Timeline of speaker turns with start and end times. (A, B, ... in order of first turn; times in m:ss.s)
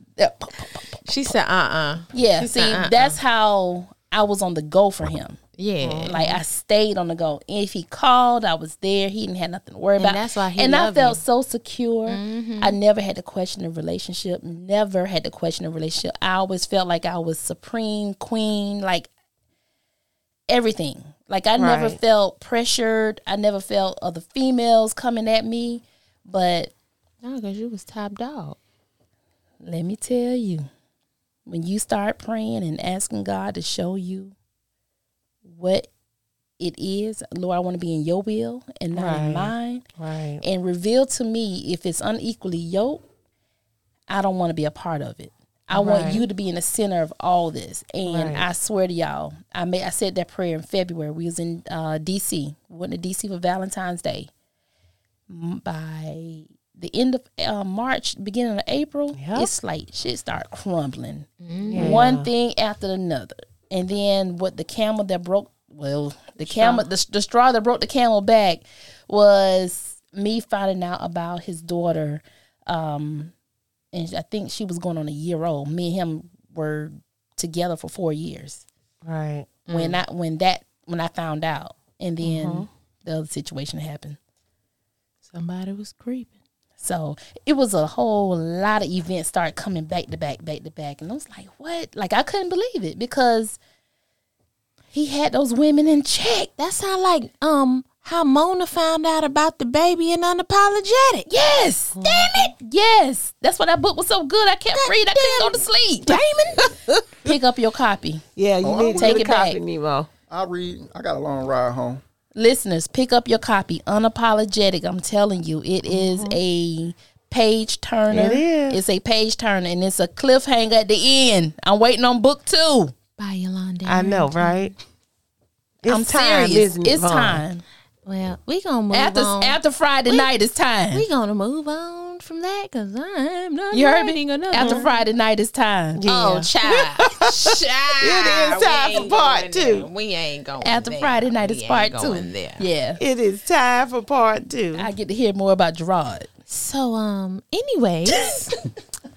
0:00.2-0:01.0 A
0:01.1-0:03.2 B
0:02.1-0:05.4 A
0:05.6-0:06.4 B
0:05.8-0:06.1 C
0:06.1-0:19.1 A
0:10.0-0:11.2 B
0:12.1-0:12.8 B
0:20.5-0:26.7 A
0:21.6-0:22.0 C
0:27.2-0:28.6 B
0:29.6-0:30.7 A
0:31.5-0:34.4 A
0:35.5-0:35.9 A
0:36.6-0:39.8 A
0:38.9-0:40.4 C
0:40.4-0:43.0 A
0:44.1-0:54.3 A
0:45.7-0:46.3 C
0:48.1-0:48.5 C
0:55.3-1:13.3 A
0:59.2-0:59.5 C
1:01.4-1:02.1 B
1:01.7-1:02.3 C
1:06.4-1:06.9 C
1:13.9-1:18.6 A
1:19.0-1:19.6 C
1:19.7-1:20.0 B
1:19.7-1:24.2 A
1:22.2-1:22.7 C
1:25.3-1:26.3 B
1:26.8-1:33.6 A
1:34.9-1:36.5 A
1:36.6-1:41.3 B
1:41.3-1:46.2 A
1:42.0-1:42.5 C
1:42.0-1:42.4 B
1:44.8-1:46.7 B
1:46.6-1:46.9 C
1:47.2-1:48.2 A
1:48.4-1:50.1 C
1:48.6-1:49.3 D
1:49.0-1:49.6 A
1:50.3-1:52.0 D
1:52.4-2:03.0 A
1:55.9-1:56.4 C
1:58.1-1:58.8 C
2:03.2-2:04.8 B
2:03.8-2:04.7 C
2:05.8-2:07.4 C
2:05.9-2:07.6 A
2:08.0-2:10.3 B
2:08.9-2:11.1 A
2:10.9-2:15.0 B
2:13.7-2:16.0 A
2:14.6-2:14.8 C
2:16.0-2:19.9 C
2:16.1-2:22.6 B
2:20.6-2:23.0 A
2:23.0-2:24.9 C
2:24.8-2:26.3 A
2:26.5-2:28.5 B